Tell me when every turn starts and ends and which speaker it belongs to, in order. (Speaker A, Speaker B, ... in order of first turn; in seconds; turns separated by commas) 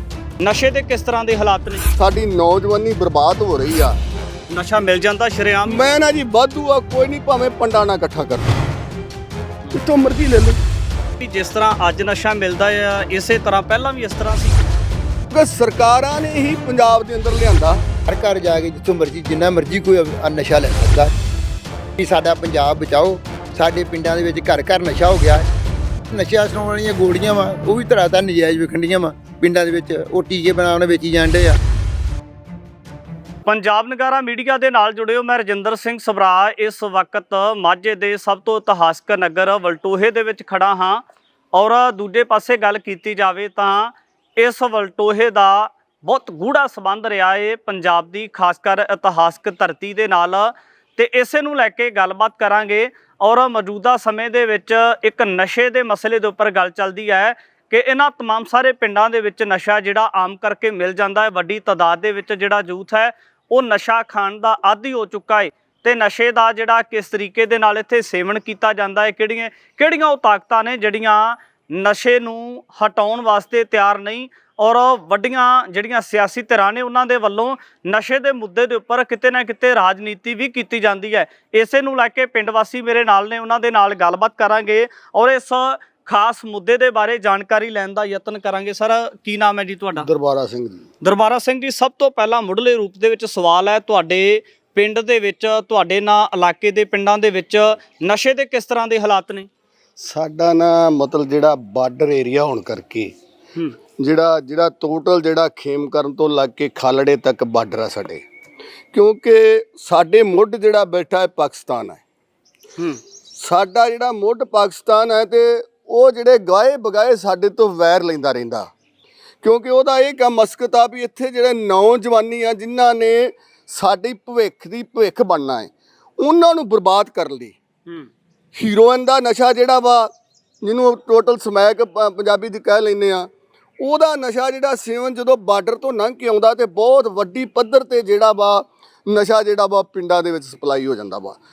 Speaker A: 0.4-1.8, Speaker B: 2.0-4.0, Speaker A: 4.5-5.8, Speaker B: 5.7-8.5, Speaker B: 9.7-10.6, Speaker A: 11.2-14.6, Speaker B: 15.3-17.8, Speaker C: 18.1-21.1, Speaker C: 22.0-25.4, Speaker C: 26.1-31.6, Speaker A: 33.4-41.0, Speaker A: 41.5-90.1, Speaker B: 90.0-90.8, Speaker A: 91.0-99.5, Speaker B: 100.0-103.1, Speaker B: 104.0-108.2, Speaker B: 108.9-112.0, Speaker B: 113.3-118.7, Speaker B: 119.4-127.6, Speaker B: 128.5-130.1, Speaker B: 130.6-133.3, Speaker B: 133.8-141.4